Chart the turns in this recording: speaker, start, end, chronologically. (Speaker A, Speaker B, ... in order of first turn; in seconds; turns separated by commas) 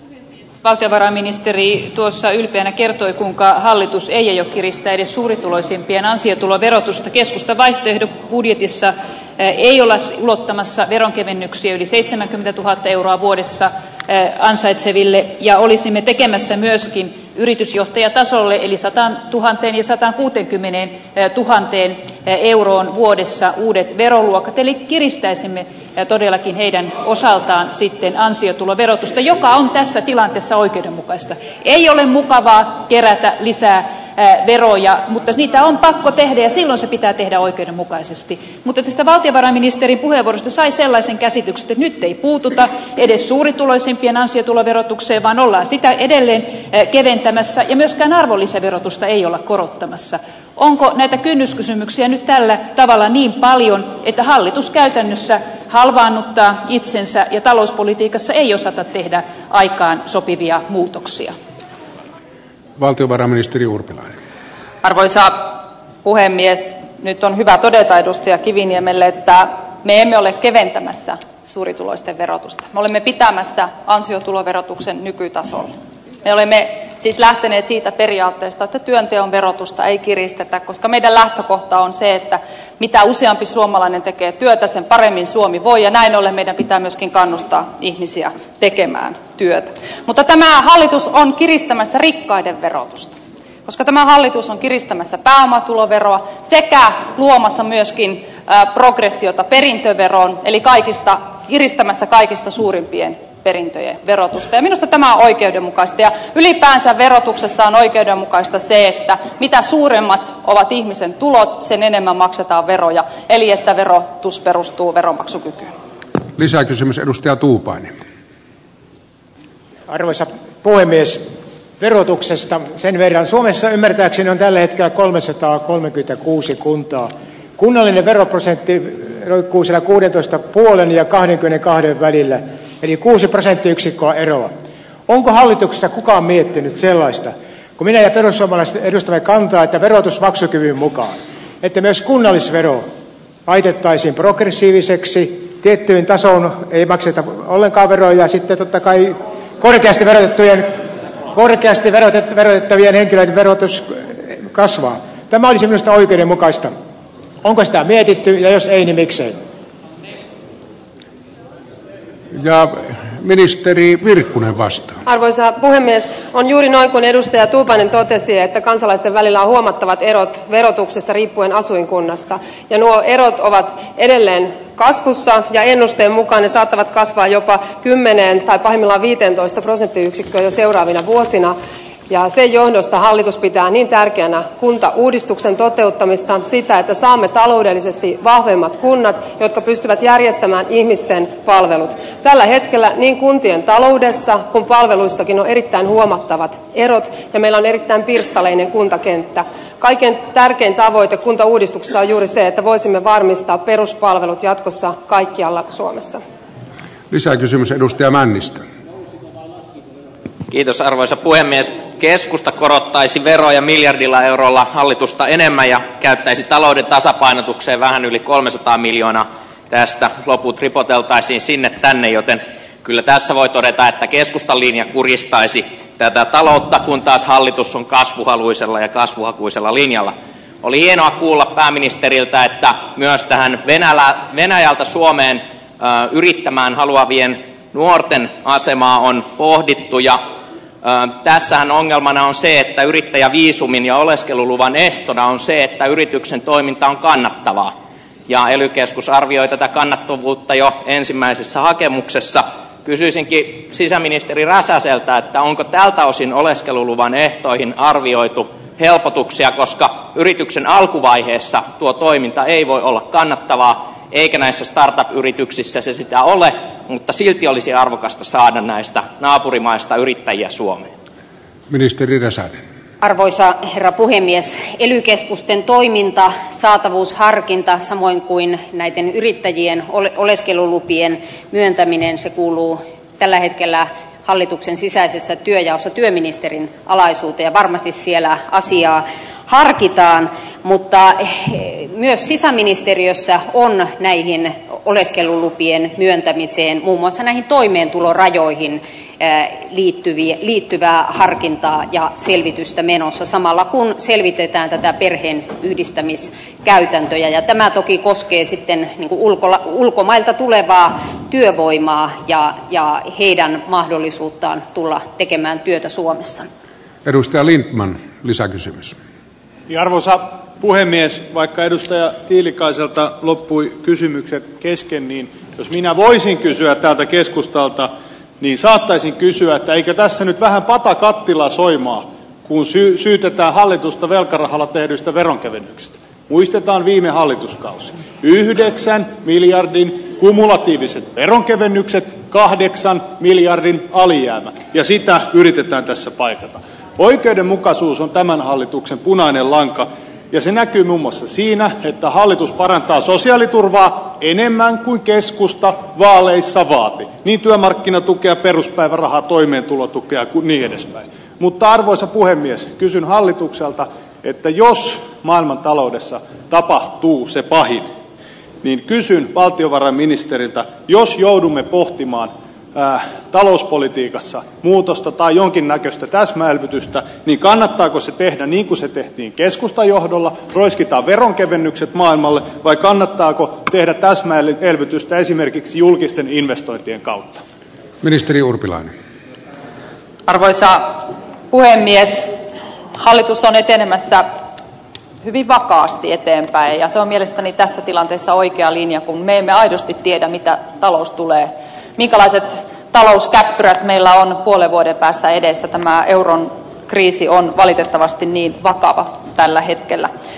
Speaker A: 0.6-61.4, Speaker B: 62.8-64.2, Speaker C: 64.8-115.7, Speaker B: 116.4-118.0, Speaker D: 119.9-134.6, Speaker D: 135.1-142.9, Speaker D: 143.5-150.8, Speaker D: 151.3-156.8, Speaker D: 157.4-159.4, Speaker B: 162.3-165.0, Speaker E: 165.1-181.6, Speaker E: 182.1-206.2, Speaker B: 207.1-208.7, Speaker F: 210.5-240.2, Speaker F: 240.8-247.7, Speaker F: 248.3-270.9, Speaker B: 271.7-272.6, Speaker G: 273.0-316.5, Speaker B: 317.1-318.9, Speaker H: 319.7-367.9, Speaker H: 368.6-387.4, Speaker B: 388.0-388.9, Speaker C: 390.3-392.3, Speaker C: 393.0-394.3, Speaker C: 395.2-410.1